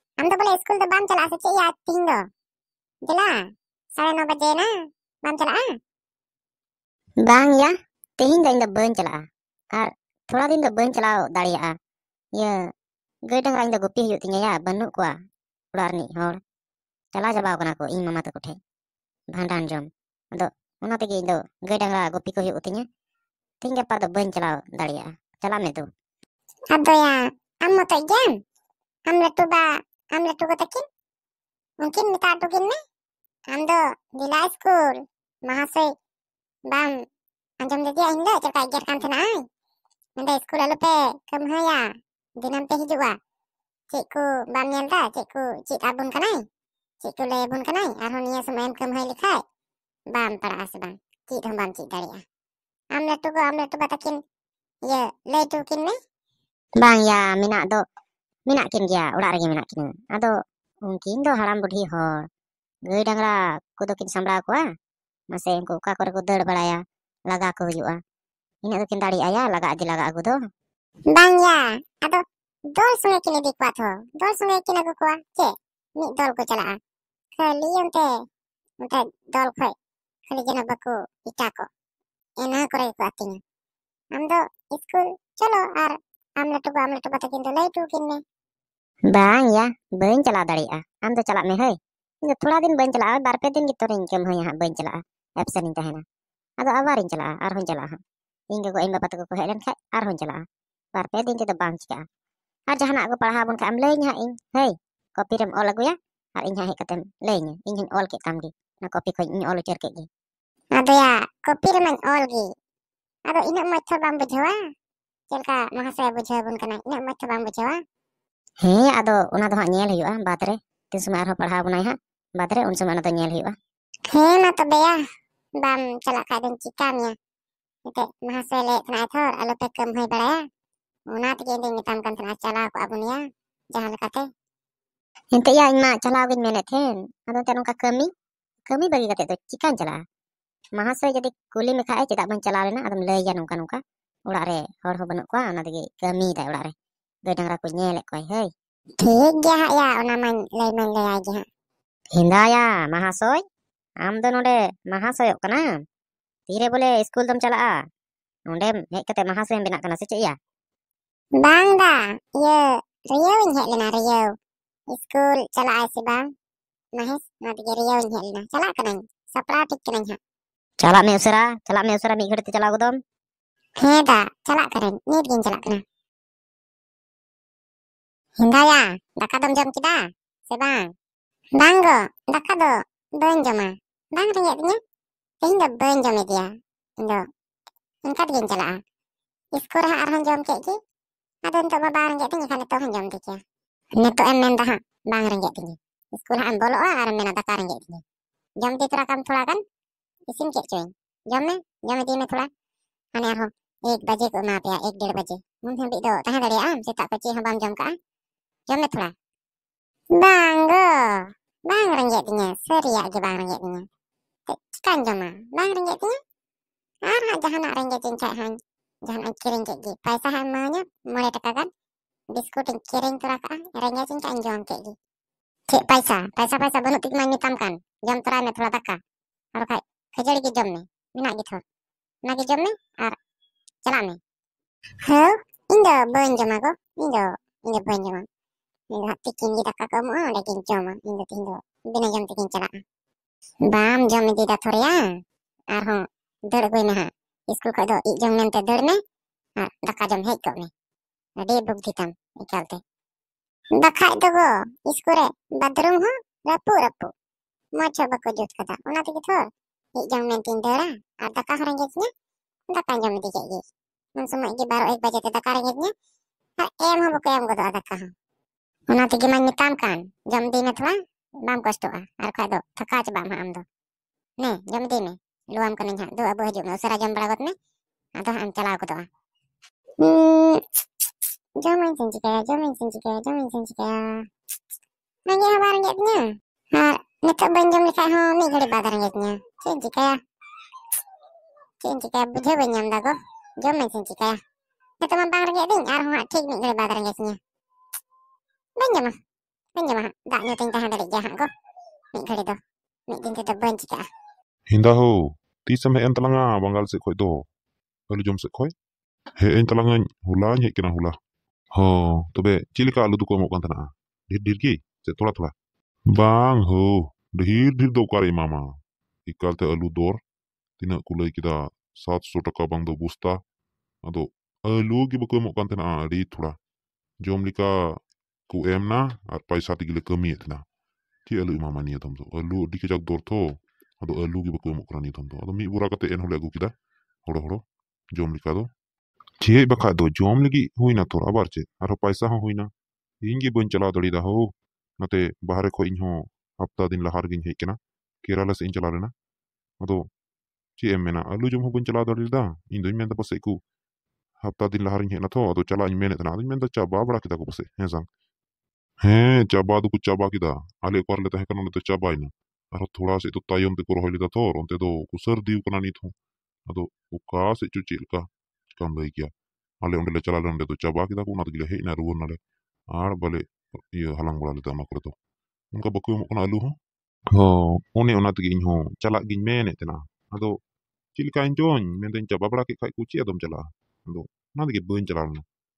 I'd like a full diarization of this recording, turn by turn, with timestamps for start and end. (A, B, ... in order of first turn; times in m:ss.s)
0:00.2-0:02.2 A
0:03.1-0:03.4 A
0:04.0-0:04.7 A
0:05.2-0:05.6 A
0:07.2-0:11.7 B
0:13.3-0:15.1 B
0:15.7-0:16.4 B
0:17.1-0:18.6 B
0:19.3-0:22.8 B
0:23.6-0:25.9 B
0:26.7-0:28.3 A
0:29.1-0:30.8 A
0:31.8-0:32.8 A
0:33.5-0:34.9 A
0:35.5-0:35.8 A
0:37.6-0:39.3 A
0:40.2-0:41.9 A
0:42.4-0:43.2 A
0:43.9-0:46.4 A
0:47.0-0:49.4 A
0:50.1-0:52.2 A
0:52.9-0:54.2 A
0:54.8-0:55.9 A
0:56.8-0:57.8 B
0:58.5-1:00.3 B
1:00.8-1:02.3 B
1:02.9-1:04.6 B
1:05.3-1:08.0 B
1:08.6-1:10.4 B
1:11.1-1:12.2 A
1:12.8-1:16.8 A
1:17.4-1:18.1 A
1:18.8-1:19.7 A
1:20.3-1:21.7 A
1:22.4-1:23.4 A
1:24.1-1:28.2 A
1:29.1-1:36.0 B
1:36.6-1:38.0 B
1:38.5-1:40.4 B
1:41.0-1:42.0 B
1:42.7-1:50.1 B
1:50.8-1:52.5 A
1:53.3-1:54.6 A
1:55.3-1:57.8 A
1:58.6-2:03.6 B
2:04.1-2:05.0 A
2:05.6-2:07.1 A
2:07.9-2:10.4 A
2:11.1-2:13.2 A
2:13.7-2:14.2 A
2:15.3-2:18.1 B
2:18.7-2:20.0 B
2:20.8-2:26.7 B
2:27.2-2:28.5 B
2:29.0-2:31.4 A
2:32.2-2:33.4 B
2:34.0-2:35.6 B
2:36.5-2:37.8 B
2:38.5-2:40.4 B
2:41.4-2:44.3 A
2:44.9-2:46.2 A
2:47.0-2:50.2 A
2:50.8-2:53.0 B
2:53.8-2:55.8 A
2:58.4-3:00.9 A
3:01.6-3:04.8 A
3:05.4-3:07.2 A
3:08.0-3:08.8 A
3:09.5-3:10.8 A
3:11.4-3:13.4 A
3:14.0-3:18.0 A
3:18.6-3:19.6 A
3:20.3-3:22.5 A
3:23.2-3:27.9 A
3:28.7-3:29.1 A
3:30.2-3:33.8 A
3:34.5-3:36.2 A
3:37.1-3:38.6 A
3:39.1-3:41.7 A
3:42.3-3:44.9 A
3:45.7-3:49.0 A
3:49.6-3:51.6 A
3:52.2-3:53.2 A
3:53.8-3:54.2 A
3:55.0-3:58.2 A
3:58.9-4:02.8 A
4:03.7-4:05.0 A
4:05.7-4:09.0 A
4:09.6-4:10.7 A
4:11.4-4:12.8 A
4:13.8-4:17.1 A
4:17.8-4:19.4 A
4:20.0-4:22.1 A
4:22.7-4:23.6 A
4:24.2-4:25.9 A
4:26.6-4:28.1 A
4:28.9-4:33.6 A
4:34.4-4:37.5 A
4:38.2-4:39.1 A
4:40.0-4:40.6 A
4:41.6-4:44.2 A
4:45.3-4:46.2 A
4:46.7-4:50.2 A
4:51.8-4:54.4 A
4:55.0-4:57.4 A
4:58.8-4:59.1 A
4:59.8-5:01.5 A
5:02.1-5:02.6 A
5:03.1-5:04.0 A
5:04.7-5:07.4 C
5:08.1-5:08.7 C
5:09.4-5:11.2 C
5:11.7-5:15.5 C
5:16.1-5:18.7 C
5:19.3-5:20.2 C
5:20.8-5:23.4 C
5:24.1-5:26.6 C
5:27.2-5:28.0 C
5:28.5-5:30.6 C
5:31.3-5:36.7 C
5:37.2-5:37.6 C
5:38.2-5:38.7 C
5:39.4-5:42.7 C
5:43.2-5:44.5 C
5:45.0-5:49.1 C
5:49.8-5:50.1 C
5:50.8-5:53.6 C
5:54.4-5:58.1 C
5:59.0-6:06.1 C
6:06.7-6:09.3 C
6:09.8-6:12.4 C
6:12.9-6:15.1 C
6:15.7-6:16.8 C
6:17.3-6:20.6 C
6:21.1-6:25.4 C